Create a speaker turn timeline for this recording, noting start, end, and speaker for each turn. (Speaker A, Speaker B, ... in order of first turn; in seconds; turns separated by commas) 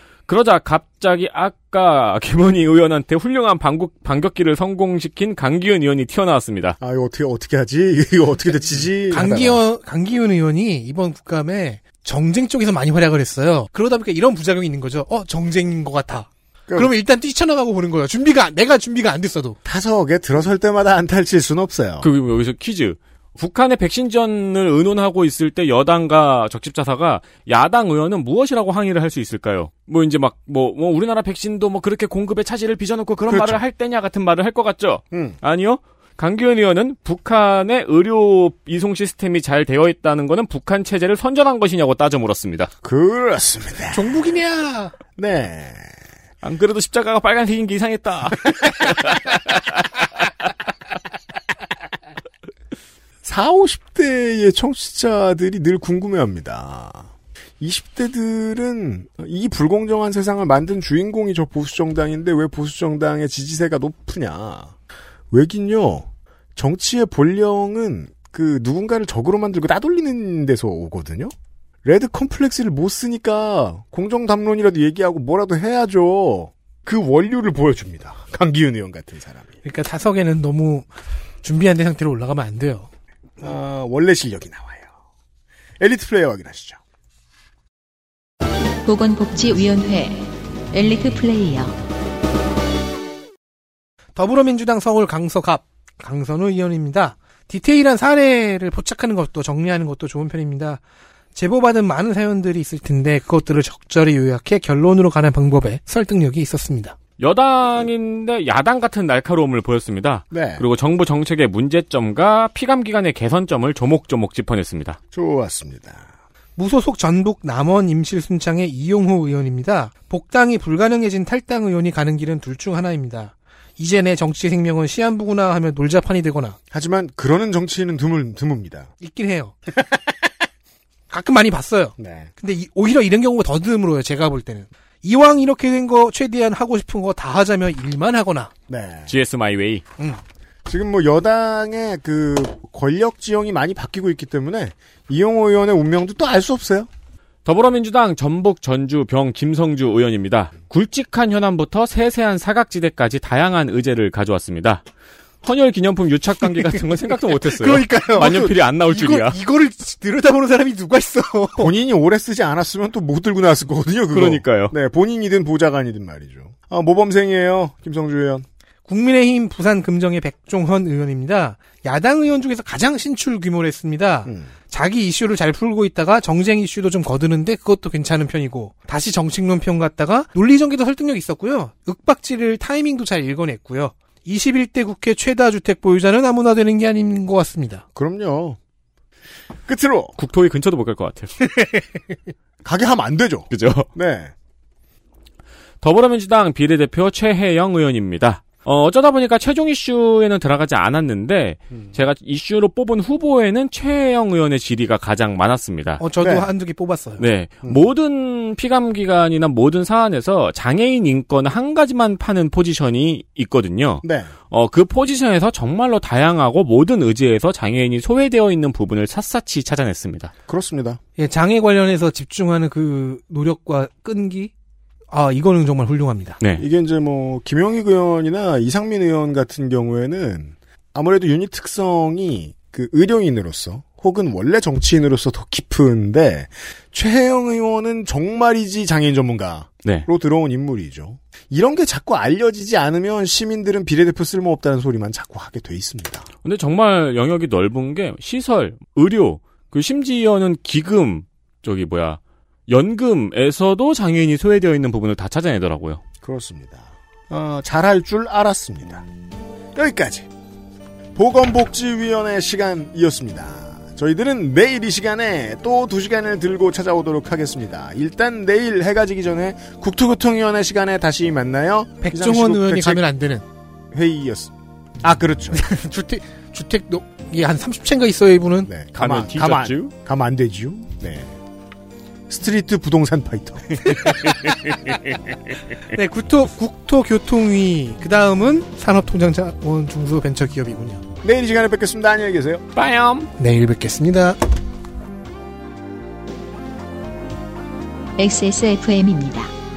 Speaker A: 0.3-6.8, Speaker B: 6.8-9.6, Speaker C: 9.1-19.6, Speaker B: 19.6-22.1, Speaker A: 22.0-42.7, Speaker B: 33.3-33.6, Speaker B: 35.1-35.4, Speaker B: 42.8-44.2, Speaker C: 43.9-44.9, Speaker B: 45.2-46.0, Speaker A: 46.4-49.6, Speaker B: 53.2-64.7, Speaker B: 65.3-71.3, Speaker B: 71.8-79.5, Speaker C: 79.7-80.9, Speaker C: 81.4-82.9, Speaker B: 83.4-84.9, Speaker B: 85.8-86.8, Speaker D: 88.8-91.8, Speaker C: 94.2-100.8, Speaker C: 101.3-107.0, Speaker A: 107.2-115.0, Speaker B: 110.3-110.7, Speaker B: 115.1-116.1, Speaker C: 116.6-126.6, Speaker B: 126.7-128.9, Speaker C: 129.0-129.6, Speaker B: 129.8-130.1, Speaker C: 131.1-138.5, Speaker B: 132.0-132.3, Speaker B: 138.7-139.1, Speaker A: 139.1-139.8, Speaker B: 140.7-146.9, Speaker A: 147.4-154.8, Speaker A: 155.4-159.4, Speaker C: 157.3-161.7, Speaker B: 161.6-168.4, Speaker A: 164.1-164.8, Speaker C: 168.9-187.8, Speaker B: 174.3-174.5, Speaker B: 187.9-188.6, Speaker B: 189.7-190.2, Speaker A: 190.2-191.3, Speaker B: 192.6-194.3, Speaker A: 193.5-193.9, Speaker A: 195.8-206.0, Speaker C: 206.0-207.2, Speaker B: 206.2-206.5, Speaker A: 207.2-220.3, Speaker B: 214.0-214.3, Speaker B: 220.5-221.0, Speaker C: 221.2-224.5, Speaker C: 225.1-226.4, Speaker B: 226.6-246.3, Speaker A: 246.4-256.0, Speaker B: 256.2-259.1, Speaker B: 259.8-260.3, Speaker B: 261.1-273.0, Speaker C: 272.0-273.4, Speaker B: 273.9-275.6, Speaker C: 275.5-278.7, Speaker B: 278.7-281.4, Speaker A: 278.9-279.9, Speaker B: 282.3-284.3, Speaker C: 285.9-291.0, Speaker B: 291.2-292.6, Speaker A: 292.8-293.3, Speaker C: 293.4-294.4, Speaker D: 298.2-299.5